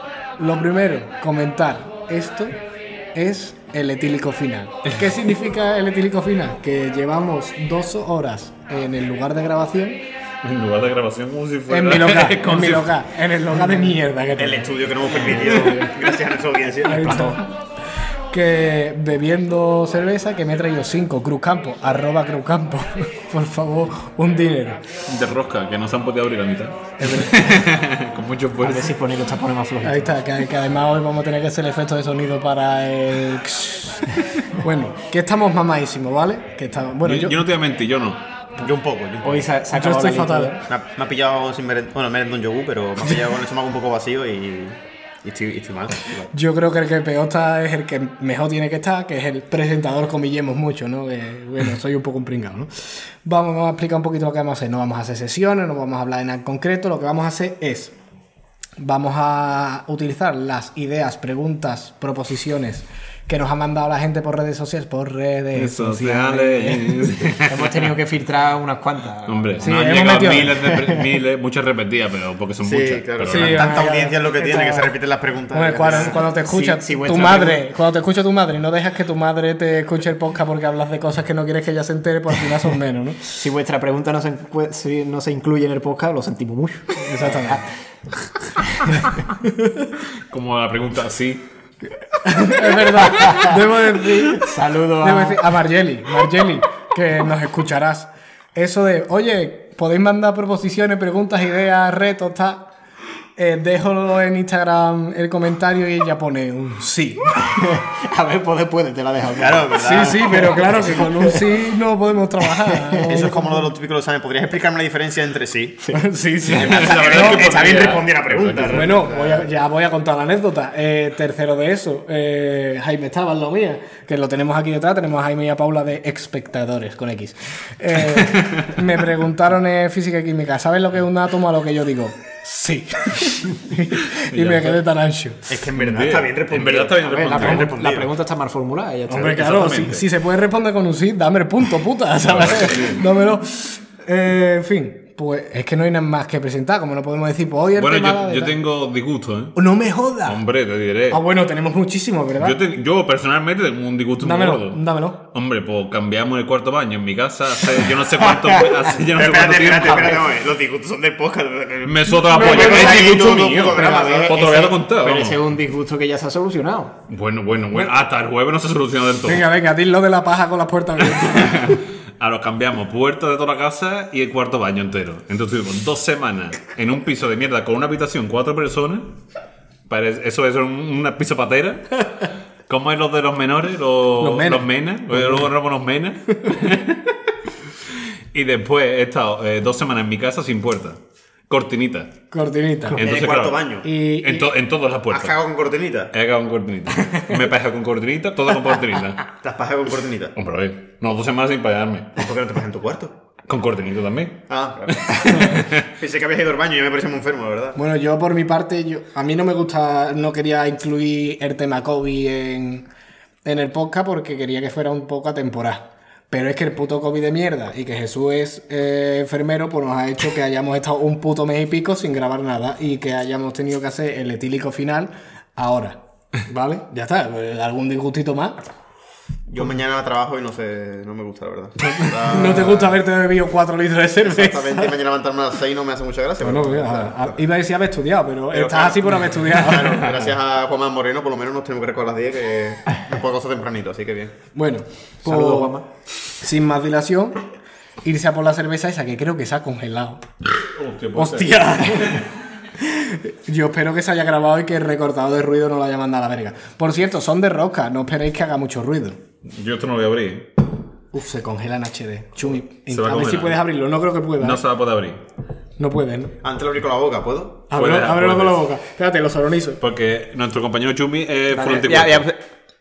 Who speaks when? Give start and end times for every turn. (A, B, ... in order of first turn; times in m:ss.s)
0:00.4-0:02.6 A
0:03.1-0:10.0 A
0:10.4-0:12.9 B
0:11.7-0:15.9 A
0:14.4-0:17.4 C
0:16.8-0:17.5 A
0:18.3-0:24.8 A
0:25.1-0:28.9 B
0:27.0-0:27.7 A
0:28.6-0:30.2 D
0:29.8-0:37.4 A
0:37.0-0:38.2 B
0:38.6-0:39.5 C
0:39.2-0:40.6 D
0:39.7-0:40.6 A
0:40.7-0:46.3 C
0:46.3-0:58.0 A
0:58.8-1:07.1 A
1:05.5-1:07.9 B
1:07.4-1:09.8 D
1:09.3-1:13.8 B
1:09.6-1:10.6 A
1:10.6-1:11.0 D
1:12.6-1:16.2 C
1:13.2-1:14.9 A
1:15.5-1:23.4 A
1:16.4-1:17.6 D
1:23.3-1:27.6 D
1:27.0-1:27.6 A
1:28.7-1:29.0 D
1:29.3-1:29.9 A
1:30.3-1:31.4 B
1:32.2-1:42.7 A
1:33.2-1:33.5 D
1:34.4-1:35.4 D
1:43.4-1:47.5 A
1:47.5-1:51.5 D
1:49.4-1:50.6 C
1:49.8-1:53.7 A
1:52.5-1:53.0 D
1:53.1-1:55.8 C
1:55.9-1:57.6 A
1:56.4-1:59.0 B
1:56.4-1:59.4 C
1:58.7-2:15.5 A
2:08.4-2:08.7 B
2:14.1-2:14.8 B
2:15.5-2:18.1 C
2:15.8-2:17.8 B
2:17.0-2:19.9 D
2:19.1-2:28.6 A
2:19.3-2:20.0 B
2:22.2-2:23.0 B
2:27.8-2:29.6 B
2:29.6-2:30.4 A
2:30.3-2:31.2 B
2:31.1-2:32.6 A
2:32.4-2:40.3 B
2:34.2-2:35.2 A
2:39.1-2:44.5 C
2:41.8-2:45.4 B
2:42.3-2:43.1 A
2:43.7-2:47.0 D
2:47.1-2:49.5 B
2:49.2-2:51.8 A
2:51.2-2:59.2 B
2:59.9-3:07.0 B
3:04.2-3:05.5 A
3:08.3-3:12.2 B
3:12.3-3:13.0 A
3:12.9-3:15.4 B
3:13.0-3:13.9 C
3:13.8-3:14.5 A
3:15.1-3:16.1 C
3:16.1-3:19.2 B
3:19.4-3:20.4 C
3:20.4-3:22.2 B
3:22.2-3:23.2 C
3:23.5-3:25.9 B
3:24.5-3:27.8 C
3:27.8-3:32.9 A
3:33.4-3:48.6 A
3:49.5-3:53.0 C
3:52.1-3:55.0 A
3:54.2-3:57.3 C
3:56.4-4:00.2 A
3:58.5-4:04.4 C
4:04.6-4:05.8 A
4:05.2-4:05.9 D
4:06.4-4:07.4 A
4:08.0-4:10.2 A
4:10.7-4:12.2 B
4:11.1-4:19.2 A
4:19.4-4:20.6 B
4:21.1-4:24.6 A
4:22.9-4:23.6 B
4:24.4-4:25.2 B
4:25.8-4:26.4 A
4:26.4-4:27.6 C
4:27.7-4:29.8 A
4:27.7-4:28.6 B
4:29.8-4:32.3 B
4:31.6-4:32.4 C